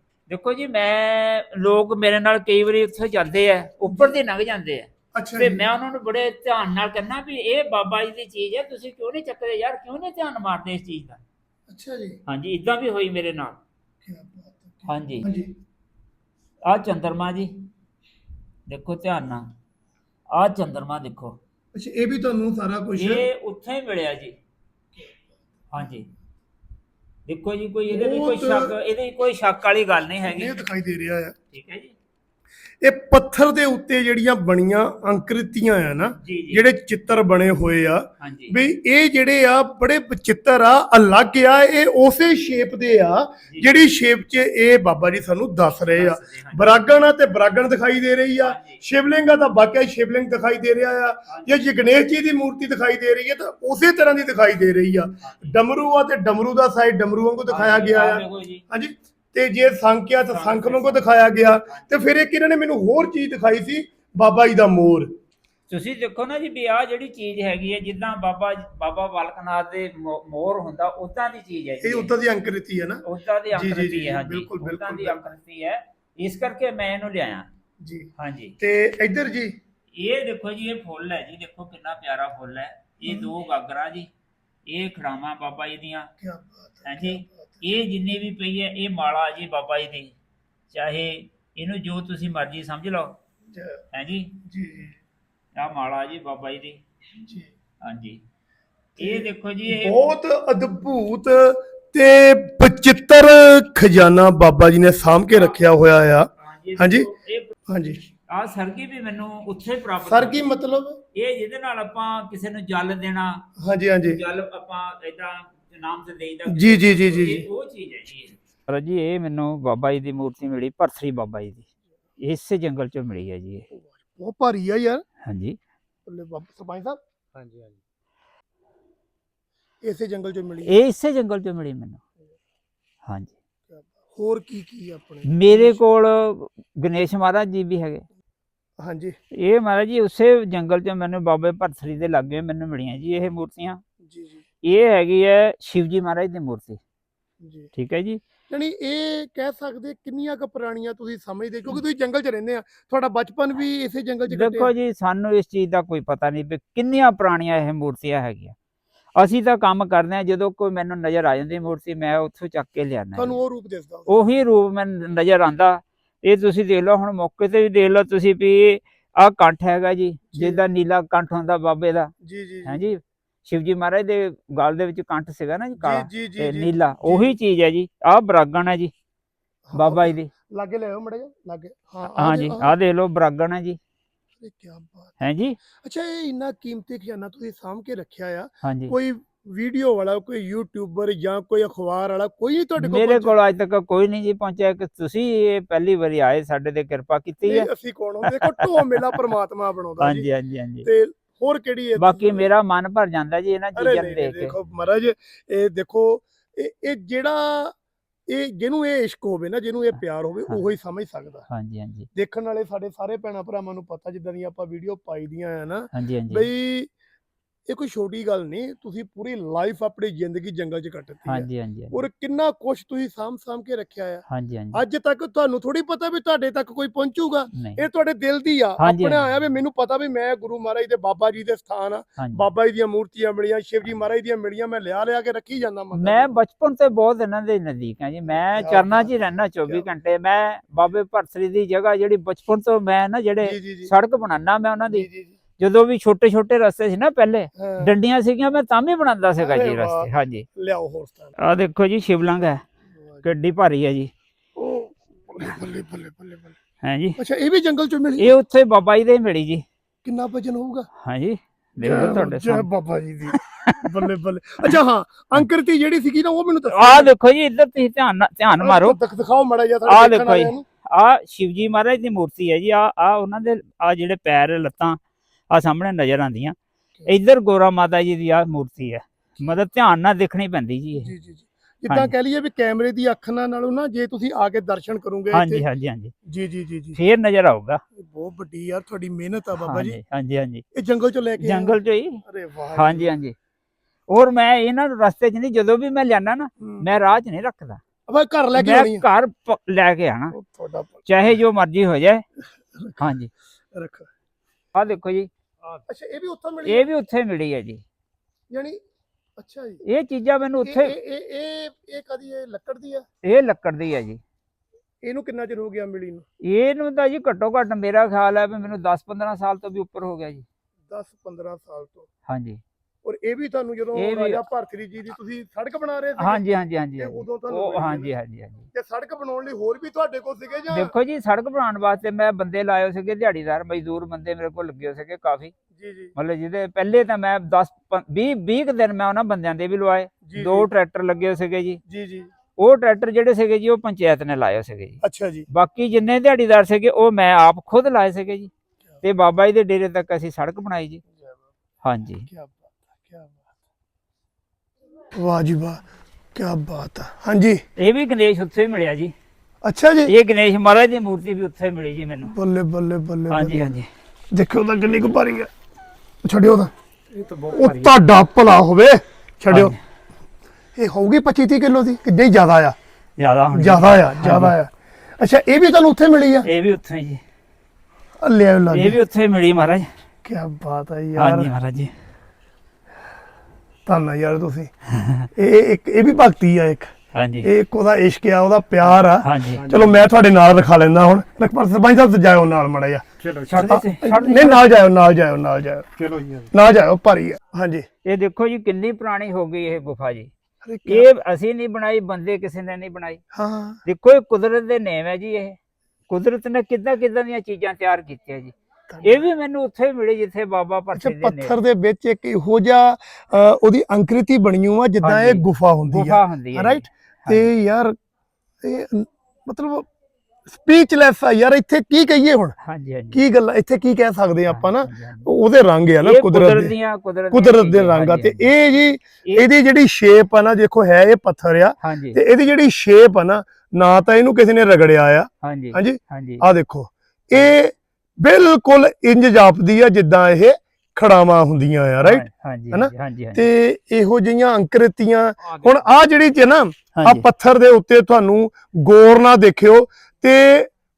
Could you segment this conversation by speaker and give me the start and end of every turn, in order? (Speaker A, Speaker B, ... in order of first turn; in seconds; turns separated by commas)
Speaker A: 0.3-11.2, Speaker B: 3.9-4.2, Speaker B: 5.1-5.6, Speaker B: 11.7-12.2, Speaker A: 12.3-13.6, Speaker B: 14.0-15.5, Speaker A: 14.8-15.3, Speaker A: 16.6-17.5, Speaker A: 18.7-19.5, Speaker A: 20.3-21.4, Speaker B: 21.7-23.2, Speaker A: 23.0-24.3, Speaker A: 25.7-26.1, Speaker A: 27.3-30.6, Speaker B: 27.9-28.8, Speaker B: 30.2-31.4, Speaker A: 31.5-31.9, Speaker B: 32.8-65.1, Speaker A: 36.2-36.6, Speaker A: 38.2-38.6, Speaker A: 43.5-43.8, Speaker A: 45.9-46.9, Speaker A: 48.4-48.8, Speaker A: 51.3-51.6, Speaker A: 55.2-55.5, Speaker A: 57.5-58.6, Speaker A: 60.3-62.0, Speaker A: 65.7-72.1, Speaker B: 71.8-73.0, Speaker A: 73.0-77.5, Speaker B: 73.5-75.4, Speaker B: 77.8-79.5, Speaker A: 78.2-78.6, Speaker A: 79.9-84.1, Speaker B: 83.0-83.3, Speaker A: 84.7-86.1, Speaker B: 86.2-87.6, Speaker A: 86.8-90.2, Speaker A: 90.7-93.2, Speaker B: 93.5-93.8, Speaker A: 93.9-94.4, Speaker B: 94.4-95.0, Speaker A: 95.5-96.8, Speaker B: 97.1-97.5, Speaker A: 97.8-98.2, Speaker B: 99.0-107.1, Speaker A: 99.0-100.0, Speaker A: 106.4-107.5, Speaker B: 107.7-108.0, Speaker A: 108.3-110.5, Speaker B: 110.0-111.0, Speaker A: 111.1-113.5, Speaker B: 113.6-114.2, Speaker A: 114.1-121.7, Speaker B: 116.5-117.5, Speaker A: 122.2-123.7, Speaker B: 123.7-125.0, Speaker A: 125.2-125.6, Speaker B: 126.0-127.0, Speaker C: 127.3-127.8, Speaker B: 129.8-130.7, Speaker A: 130.7-132.0, Speaker A: 133.1-133.3, Speaker B: 133.7-135.8, Speaker A: 135.3-138.1, Speaker B: 138.8-139.2, Speaker A: 139.3-143.8, Speaker B: 144.0-144.4, Speaker A: 144.6-146.8, Speaker B: 147.4-147.7, Speaker A: 147.7-148.2, Speaker B: 148.5-154.7, Speaker A: 154.3-158.5, Speaker A: 159.2-163.4, Speaker B: 163.1-164.1, Speaker A: 164.1-172.1, Speaker B: 170.3-170.6, Speaker B: 172.2-172.8, Speaker A: 172.6-178.9, Speaker B: 175.8-177.3, Speaker B: 179.7-182.7, Speaker A: 179.7-180.3, Speaker A: 182.2-183.8, Speaker B: 184.4-185.2, Speaker A: 185.2-185.6, Speaker B: 185.7-193.3, Speaker A: 188.6-188.9, Speaker A: 192.8-197.7, Speaker B: 197.4-200.2, Speaker A: 198.2-199.2, Speaker A: 200.0-200.9, Speaker B: 200.8-202.5, Speaker A: 202.0-204.5, Speaker B: 203.8-207.7, Speaker B: 208.3-211.4, Speaker A: 211.5-212.1, Speaker B: 212.1-216.9, Speaker A: 215.9-216.5, Speaker B: 217.7-236.3, Speaker A: 221.2-222.0, Speaker A: 224.3-224.8, Speaker A: 227.5-227.8, Speaker A: 228.8-229.2, Speaker A: 232.2-232.4, Speaker A: 235.9-245.1, Speaker B: 238.3-239.9, Speaker B: 243.4-243.9, Speaker B: 244.9-245.3, Speaker A: 245.6-250.4, Speaker B: 247.6-247.9, Speaker B: 249.4-251.3, Speaker A: 251.4-252.6, Speaker B: 253.0-253.2, Speaker A: 253.2-254.1, Speaker B: 254.6-256.6, Speaker A: 256.8-257.2, Speaker B: 257.2-258.3, Speaker A: 258.2-259.6, Speaker B: 260.0-260.9, Speaker A: 261.0-262.7, Speaker B: 261.8-267.1, Speaker A: 263.3-264.1, Speaker A: 266.7-269.0, Speaker B: 268.6-270.6, Speaker A: 269.9-275.0, Speaker A: 275.5-281.1, Speaker B: 281.0-285.6, Speaker A: 285.3-286.1, Speaker B: 286.2-287.0, Speaker A: 286.9-287.8, Speaker B: 287.9-290.0, Speaker A: 289.5-290.6, Speaker B: 290.7-293.1, Speaker A: 291.4-292.2, Speaker A: 292.7-293.4, Speaker A: 294.1-297.8, Speaker B: 296.6-296.9, Speaker B: 298.1-299.0, Speaker A: 298.6-300.3, Speaker B: 300.3-301.1, Speaker A: 301.1-302.2, Speaker B: 302.7-303.0, Speaker A: 303.0-303.3, Speaker B: 303.7-304.1, Speaker A: 304.7-305.3, Speaker B: 305.9-306.9, Speaker A: 306.6-307.8, Speaker B: 308.5-308.8, Speaker B: 309.4-309.8, Speaker A: 309.8-310.9, Speaker B: 310.6-313.1, Speaker A: 313.2-314.2, Speaker B: 315.0-316.2, Speaker A: 316.4-320.4, Speaker B: 320.9-322.1, Speaker A: 322.3-322.6, Speaker B: 323.0-326.4, Speaker A: 323.9-324.4, Speaker A: 326.2-328.7, Speaker B: 327.0-328.1, Speaker B: 328.7-330.9, Speaker A: 330.7-335.5, Speaker B: 335.7-336.1, Speaker A: 336.1-341.8, Speaker B: 340.2-340.7, Speaker B: 341.9-342.3, Speaker A: 342.6-348.5, Speaker B: 345.0-345.5, Speaker A: 349.0-351.0, Speaker A: 351.8-352.3, Speaker B: 352.3-353.5, Speaker B: 355.1-355.8, Speaker B: 356.3-357.6, Speaker A: 357.8-359.1, Speaker B: 359.6-360.1, Speaker A: 360.1-362.3, Speaker B: 362.3-363.5, Speaker A: 363.3-363.9, Speaker B: 364.3-365.5, Speaker B: 366.2-366.7, Speaker C: 367.1-367.9, Speaker B: 367.5-369.7, Speaker A: 369.5-369.8, Speaker B: 370.8-372.8, Speaker A: 373.2-374.5, Speaker B: 373.5-376.5, Speaker A: 376.4-377.2, Speaker B: 378.2-379.0, Speaker A: 378.7-379.9, Speaker B: 380.2-381.5, Speaker A: 381.1-381.9, Speaker B: 383.9-384.7, Speaker A: 384.9-385.3, Speaker B: 385.4-386.9, Speaker A: 387.1-387.5, Speaker B: 387.4-393.0, Speaker A: 388.9-389.6, Speaker C: 389.5-390.0, Speaker C: 393.2-393.8, Speaker A: 393.5-394.7, Speaker B: 393.6-395.9, Speaker C: 396.0-396.5, Speaker B: 396.5-397.9, Speaker A: 398.0-400.3, Speaker B: 400.6-401.1, Speaker A: 400.9-403.2, Speaker B: 403.3-403.8, Speaker A: 403.8-405.6, Speaker A: 406.1-411.6, Speaker B: 408.9-409.3, Speaker B: 410.9-417.9, Speaker A: 415.0-417.5, Speaker B: 418.6-419.9, Speaker B: 420.5-422.5, Speaker A: 422.6-423.2, Speaker B: 423.1-426.7, Speaker A: 424.5-425.3, Speaker A: 426.0-428.5, Speaker B: 427.3-450.7, Speaker A: 431.8-432.2, Speaker A: 435.4-436.4, Speaker A: 442.0-443.5, Speaker C: 445.4-445.9, Speaker A: 446.9-447.3